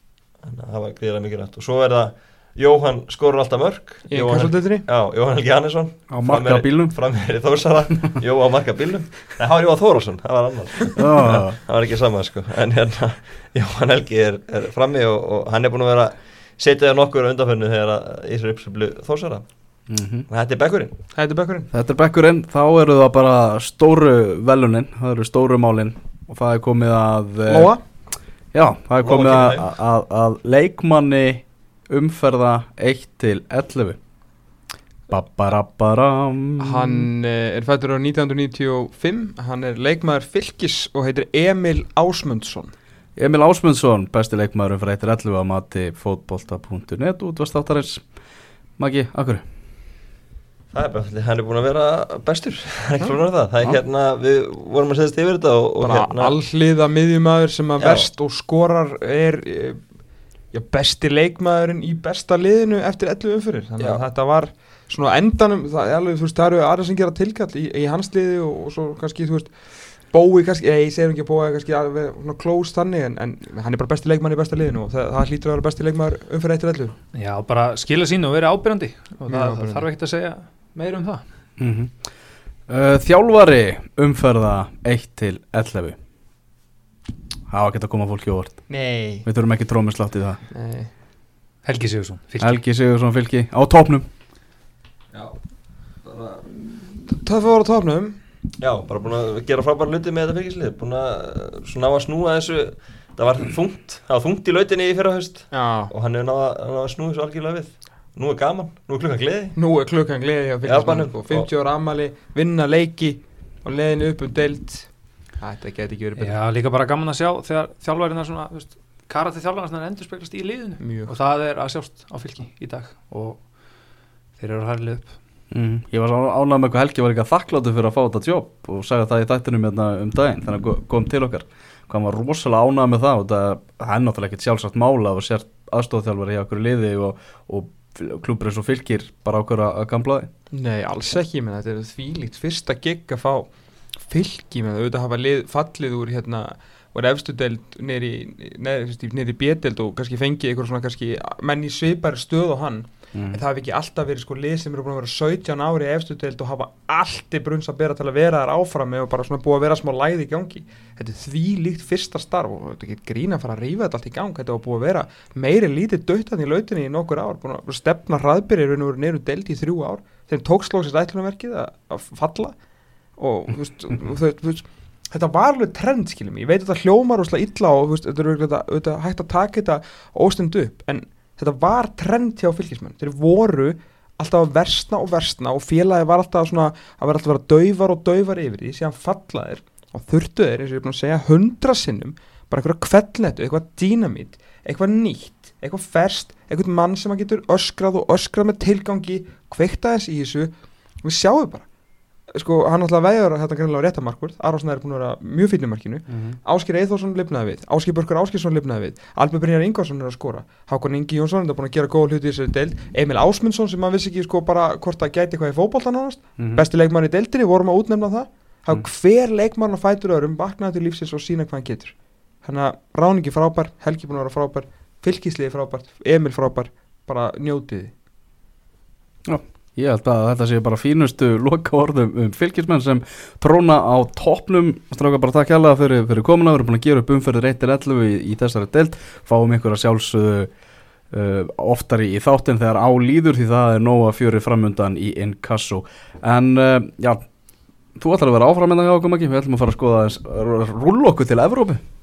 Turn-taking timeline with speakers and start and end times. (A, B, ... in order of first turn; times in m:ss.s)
0:00.4-0:19.5 A
0:04.1-0:04.8 B
0:06.1-0:07.0 C
0:11.0-0:11.6 C
0:19.9-0:20.3 C
0:20.3-0:21.0 A
0:21.2-0:21.7 B
0:21.7-0:27.7 C
0:27.5-0:27.8 B
0:28.5-0:34.0 C
0:29.0-0:29.7 A
0:35.1-0:37.1 C
0:36.6-0:42.7 B
0:43.2-0:48.0 C
0:48.8-0:49.4 C
0:50.7-0:56.3 A
0:55.8-0:59.8 B
0:57.8-0:58.1 A
1:00.5-1:17.0 B
1:17.1-1:21.2 D
1:19.3-1:19.9 B
1:21.6-1:22.1 C
1:22.7-1:26.0 C
1:27.5-1:28.7 C
1:28.7-1:29.3 B
1:29.2-1:30.4 C
1:30.5-1:30.9 B
1:31.6-1:32.6 D
1:32.4-1:34.1 C
1:35.1-1:35.4 A
1:36.0-1:36.6 A
1:37.1-1:38.2 B
1:38.6-1:49.6 A
1:45.5-1:45.9 B
1:49.6-1:56.4 B
1:50.6-1:51.5 A
1:56.2-2:03.8 D
2:00.8-2:01.1 B
2:04.4-2:05.2 D
2:05.5-2:20.3 C
2:20.5-2:23.5 B
2:24.0-2:52.6 B
2:33.1-2:33.4 C
2:53.2-3:21.6 B
3:22.3-3:47.9 B
3:26.1-3:26.4 C
3:36.4-3:36.6 C
3:49.3-4:00.5 C
4:01.1-4:07.3 C
4:08.0-4:11.8 C